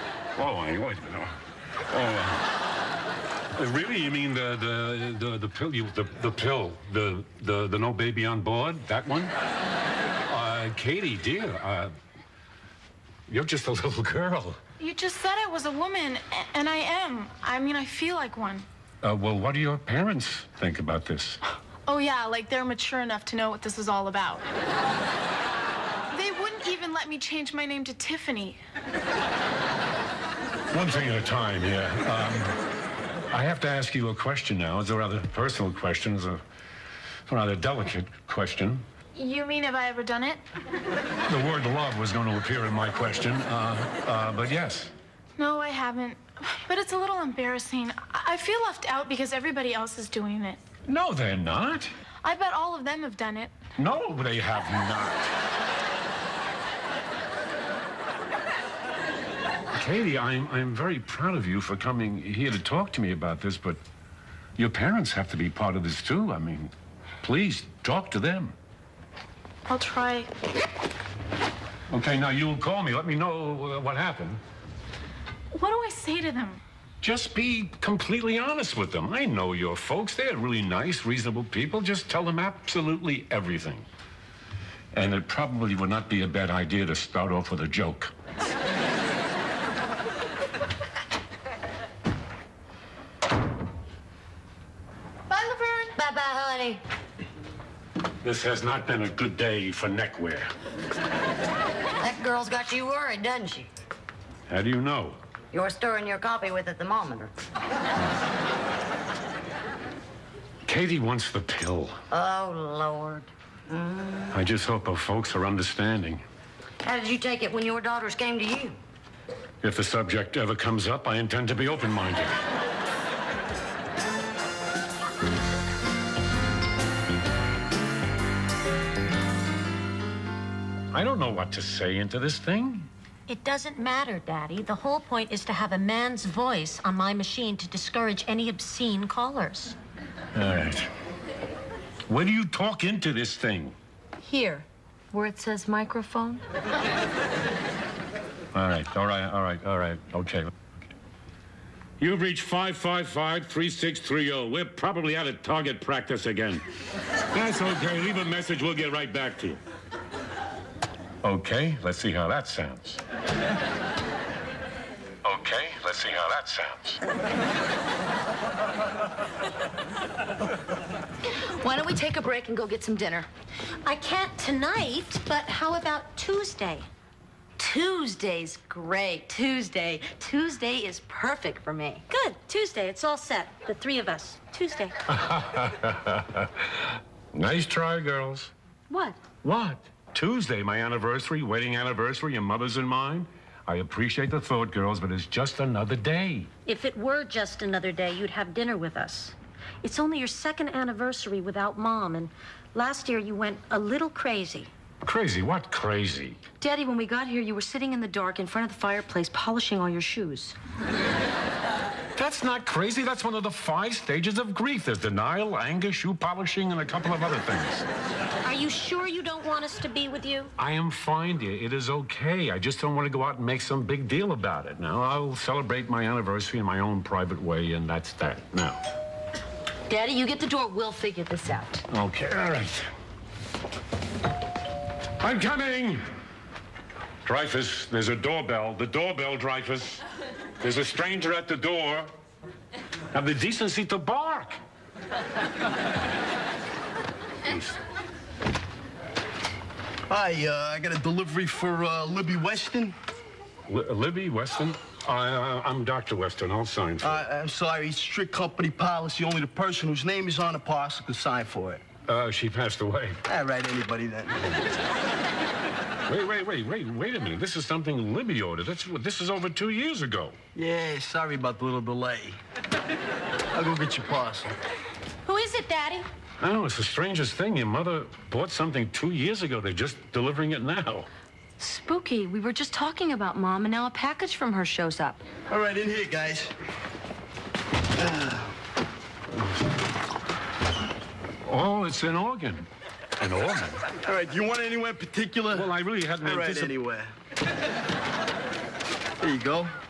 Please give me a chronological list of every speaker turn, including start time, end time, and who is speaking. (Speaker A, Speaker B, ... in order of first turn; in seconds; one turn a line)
Speaker A: 0.3-2.5
Speaker A: 3.5-9.3
Speaker A: 10.2-11.9
Speaker A: 13.3-14.6
Speaker B: 14.8-18.6
Speaker A: 19.0-21.4
Speaker B: 21.9-24.4
Speaker B: 26.1-28.6
Speaker A: 30.7-32.6
Speaker A: 33.3-36.4
Speaker A: 37.3-38.9
Speaker B: 39.1-40.4
Speaker A: 41.2-44.9
Speaker B: 45.4-50.6
Speaker A: 50.9-51.9
Speaker B: 52.2-53.5
Speaker A: 53.8-55.3
Speaker A: 59.7-63.8
Speaker A: 64.5-68.5
Speaker B: 69.7-70.3
Speaker A: 71.9-74.4
Speaker B: 75.5-76.6
Speaker A: 77.0-83.9
Speaker A: 84.9-88.1
Speaker B: 95.3-95.9
Speaker C: 96.0-96.8
Speaker A: 98.2-100.5
Speaker C: 102.0-103.7
Speaker A: 104.5-105.2
Speaker C: 105.5-107.3
Speaker A: 110.6-112.0
Speaker C: 112.1-114.4
Speaker A: 114.3-116.2
Speaker C: 116.8-118.8
Speaker A: 119.6-122.4
Speaker A: 130.9-132.9
Speaker D: 133.3-139.8
Speaker A: 140.3-140.9
Speaker A: 142.1-143.8
Speaker E: 144.2-146.4
Speaker A: 148.5-150.5
Speaker A: 152.0-156.6
Speaker A: 157.3-159.6
Speaker A: 161.2-163.0
Speaker A: 165.2-167.0
Speaker E: 171.6-173.3
Speaker D: 173.8-176.9
Speaker E: 177.6-182.0
Speaker D: 182.1-185.0
Speaker A: 185.1-188.5
Speaker E: 188.9-189.2
Speaker A: 189.4-196.5
Speaker D: 196.7-204.7
Speaker A: 205.0-206.4
Speaker E: 206.6-210.6
Speaker A: 212.2-217.9
Speaker D: 218.4-220.5
Speaker A: 220.6-228.8
Speaker E: 229.9-231.8
Speaker A: 231.9-232.9
Speaker A: 235.2-236.0
Speaker A: 237.2-240.0
Speaker A: 240.6-242.1
Speaker A: 243.1-244.6
Speaker A: 247.4-247.8
Speaker F: 250.1-252.9
Speaker A: 253.7-257.2
Speaker F: 257.0-261.8
Speaker A: 262.1-263.2
Speaker F: 263.3-264.5
Speaker A: 266.1-270.4
Speaker F: 270.5-272.4
Speaker F: 273.5-274.6
Speaker D: 275.2-276.1
Speaker A: 276.4-281.1
Speaker E: 281.6-285.2
Speaker F: 285.5-286.5
Speaker F: 287.9-288.6
Speaker A: 291.4-292.7
Speaker A: 293.2-293.8
Speaker F: 294.1-295.7
Speaker A: 295.5-296.7
Speaker F: 296.2-297.1
Speaker F: 299.2-299.7